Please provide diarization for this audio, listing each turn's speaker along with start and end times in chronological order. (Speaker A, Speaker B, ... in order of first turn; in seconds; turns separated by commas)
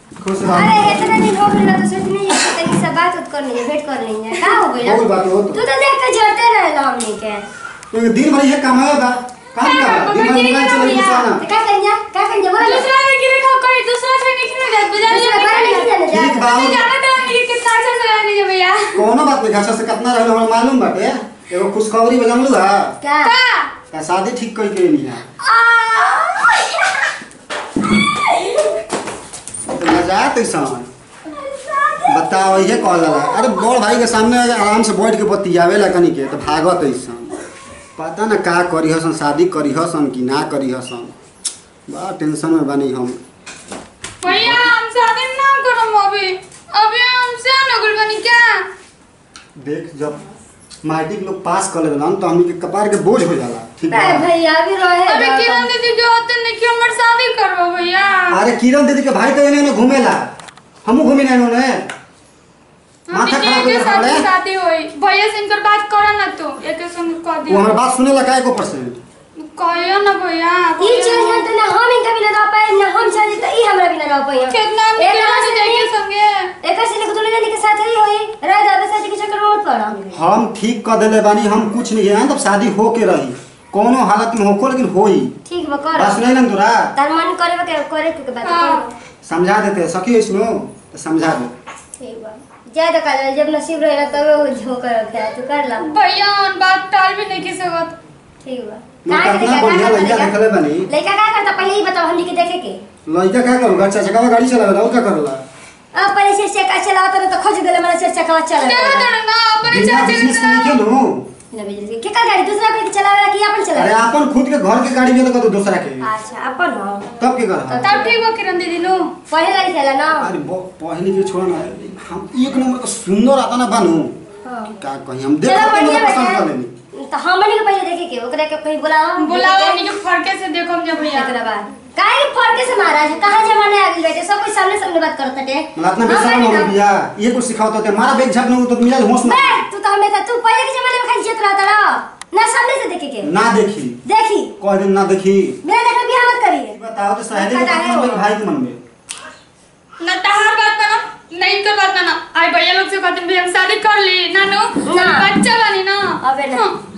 Speaker A: 0.2-1.1, Speaker B: 0.5-7.4, Speaker A: 4.8-5.6, Speaker A: 7.9-11.4, Speaker C: 9.6-11.3, Speaker B: 10.8-12.9, Speaker C: 12.6-19.0, Speaker B: 15.0-16.6, Speaker A: 16.1-16.9, Speaker A: 18.9-23.0, Speaker B: 23.0-23.3, Speaker C: 23.2-23.7, Speaker A: 23.9-25.2, Speaker C: 25.5-26.4, Speaker B: 25.8-26.6, Speaker A: 29.7-30.9, Speaker B: 31.5-33.5, Speaker A: 32.1-37.3, Speaker A: 38.0-41.1, Speaker A: 41.9-43.2, Speaker C: 44.2-48.6, Speaker A: 44.2-44.7, Speaker A: 49.6-50.2, Speaker A: 50.8-54.2, Speaker B: 53.9-55.7, Speaker C: 55.0-58.4, Speaker A: 58.3-60.3, Speaker A: 60.8-61.9, Speaker A: 63.1-64.3, Speaker C: 63.1-67.8, Speaker A: 67.5-69.0, Speaker C: 69.4-71.5, Speaker B: 70.8-75.9, Speaker C: 74.5-76.5, Speaker B: 76.6-80.2, Speaker A: 80.1-85.3, Speaker B: 85.5-86.2, Speaker A: 85.9-86.9, Speaker B: 86.9-88.9, Speaker C: 88.4-88.8, Speaker A: 89.2-91.5, Speaker B: 92.0-95.9, Speaker C: 95.8-97.9, Speaker B: 98.4-100.3, Speaker A: 99.0-100.9, Speaker B: 100.9-102.8, Speaker A: 103.1-105.4, Speaker B: 105.9-109.1, Speaker C: 108.6-110.8, Speaker A: 109.6-111.2, Speaker B: 111.5-114.0, Speaker A: 113.8-116.1, Speaker B: 116.0-117.1, Speaker A: 117.2-117.9, Speaker B: 117.7-118.2, Speaker C: 117.8-119.1, Speaker B: 119.3-120.3, Speaker A: 120.2-124.1, Speaker B: 124.4-124.8, Speaker A: 124.8-126.7, Speaker B: 125.4-129.8, Speaker C: 129.2-131.3, Speaker B: 131.0-136.7, Speaker A: 135.8-139.6, Speaker B: 139.2-143.3, Speaker A: 143.2-144.0, Speaker B: 144.1-144.5, Speaker A: 144.6-145.6, Speaker B: 145.6-146.8, Speaker A: 146.7-148.8, Speaker B: 147.3-148.2, Speaker C: 150.0-156.8, Speaker B: 154.8-155.3, Speaker B: 156.2-156.7